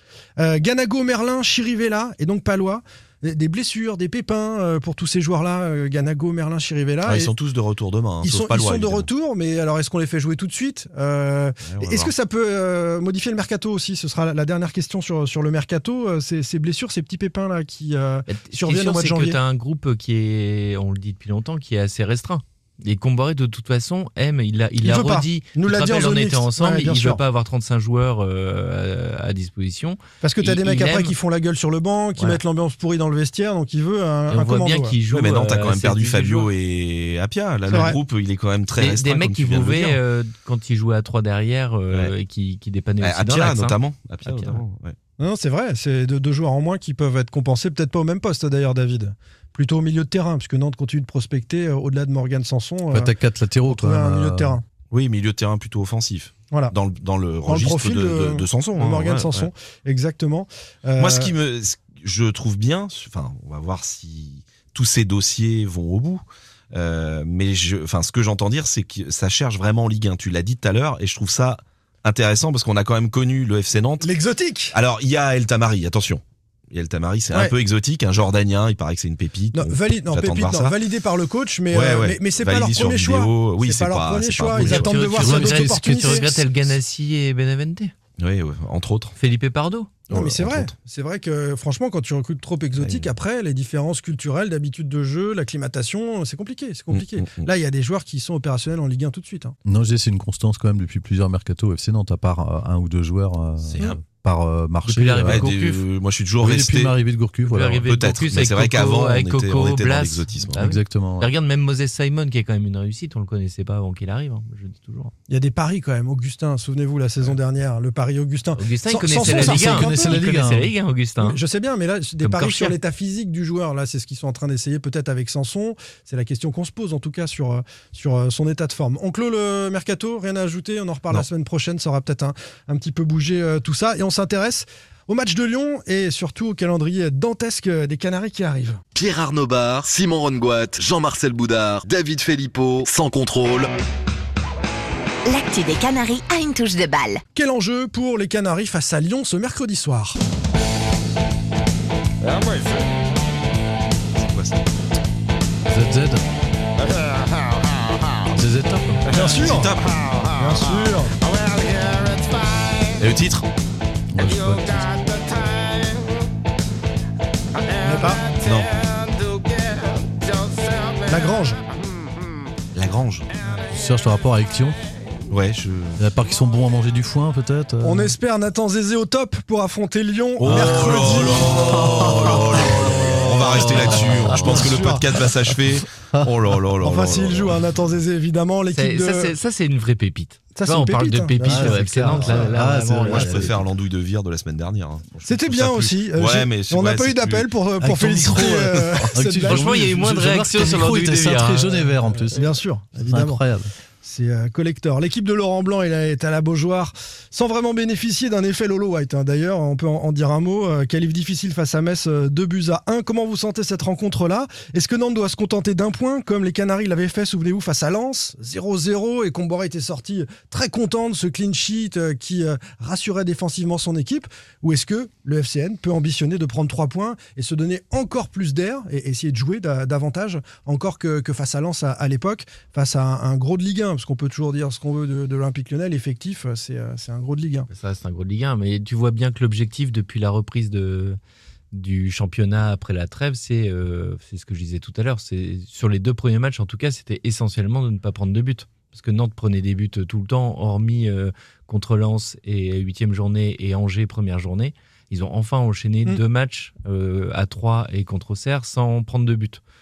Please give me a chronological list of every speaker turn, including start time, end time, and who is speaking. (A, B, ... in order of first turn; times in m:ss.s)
0:00.4-0:07.3 A
0:07.0-0:09.1 B
0:08.2-0:19.4 A
0:11.6-0:12.1 B
0:18.3-0:31.1 C
0:24.8-0:27.2 A
0:30.2-0:35.0 A
0:34.3-0:36.5 C
0:35.1-0:40.0 B
0:37.7-0:38.0 A
0:38.8-0:44.6 C
0:43.0-0:44.9 B
0:45.2-0:53.1 A
0:52.9-0:54.6 D
0:53.6-0:54.6 A
0:54.9-0:59.5 B
0:57.4-1:01.3 A
1:01.0-1:14.1 B
1:14.0-1:14.8 A
1:14.7-1:20.8 B
1:19.5-1:26.3 A
1:21.7-1:24.9 B
1:24.6-1:27.9 C
1:25.0-1:26.4 D
1:28.2-1:29.1 B
1:29.2-1:29.9 C
1:30.1-1:30.7 B
1:30.1-1:39.6 A
1:32.8-1:33.1 B
1:36.9-1:37.5 B
1:39.6-1:45.5 D
1:43.6-1:44.0 B
1:44.8-1:45.8 C
1:45.2-1:46.9 B
1:46.4-1:47.8 D
1:47.4-1:55.1 C
1:47.9-1:50.6 B
1:50.6-1:51.3 D
1:55.3-2:00.2 A
1:58.6-2:01.4 C
1:59.2-2:00.7 D
2:01.2-2:18.8 A
2:02.2-2:02.8 C
2:18.9-2:23.7 E
2:25.2-2:27.2 F
2:27.3-2:30.2 A
2:34.2-2:34.6 B
2:35.7-2:36.2 D
2:38.3-2:39.0 D
2:39.1-2:40.1 B
2:39.1-2:39.8 A
2:40.4-2:41.1 A
2:43.0-2:43.4 B
2:44.1-2:45.0 D
2:47.8-2:48.3 A
2:48.4-2:48.7 B
2:51.1-2:51.6 A
2:52.7-2:53.3 B
2:53.7-2:54.8 D
2:55.3-2:56.0 B
2:56.0-2:58.1 D
2:57.8-3:05.2 A
3:00.4-3:07.6 B
3:00.4-3:04.9 D
3:06.8-3:09.3 A
3:08.7-3:13.5 C
3:10.5-3:12.5 A
3:11.4-3:13.6 D
3:13.0-3:17.5 B
3:15.2-3:19.9 A
3:17.8-3:22.5 D
3:19.4-3:21.9 C
3:22.3-3:23.4 A
3:23.0-3:23.7 D
3:24.0-3:57.7 A
3:57.7-4:01.2 C
4:01.7-4:19.6 C